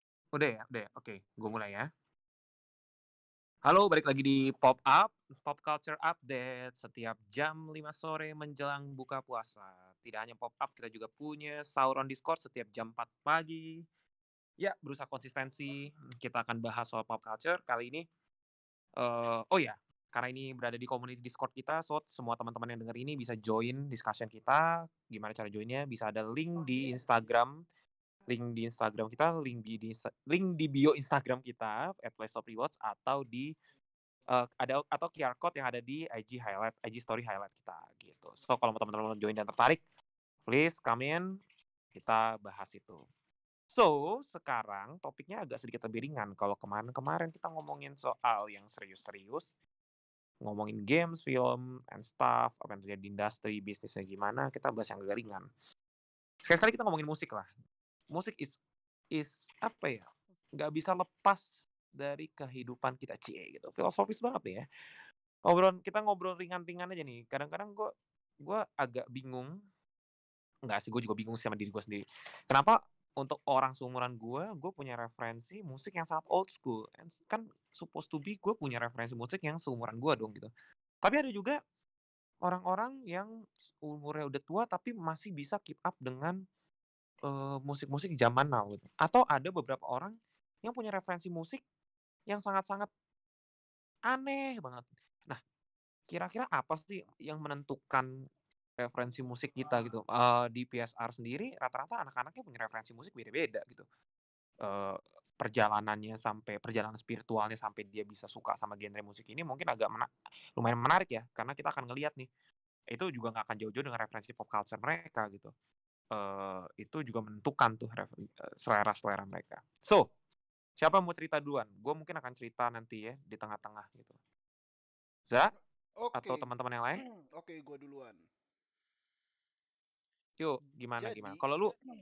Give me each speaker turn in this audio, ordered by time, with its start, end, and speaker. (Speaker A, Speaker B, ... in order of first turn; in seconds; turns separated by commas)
Speaker A: 0.3-1.9, Speaker A: 3.6-13.9, Speaker A: 14.6-18.1, Speaker A: 19.0-27.6, Speaker A: 28.3-33.5, Speaker A: 34.3-39.8, Speaker A: 40.5-41.3, Speaker A: 41.9-43.0, Speaker A: 43.7-49.5, Speaker A: 50.4-55.5, Speaker A: 56.5-57.5, Speaker A: 58.1-58.5, Speaker A: 59.1-64.7, Speaker A: 65.5-69.6, Speaker A: 70.7-80.5, Speaker A: 81.0-81.6, Speaker A: 82.5-83.3, Speaker A: 83.8-86.4, Speaker A: 87.3-91.6, Speaker A: 92.3-92.9, Speaker A: 94.1-95.4, Speaker A: 96.1-98.1, Speaker A: 98.8-103.9, Speaker A: 104.6-112.3, Speaker A: 112.9-115.5, Speaker A: 116.1-120.1, Speaker A: 120.8-124.2, Speaker A: 125.3-125.5, Speaker B: 126.0-126.5, Speaker A: 126.1-127.0, Speaker B: 127.0-128.2, Speaker A: 130.4-131.7, Speaker B: 131.0-131.4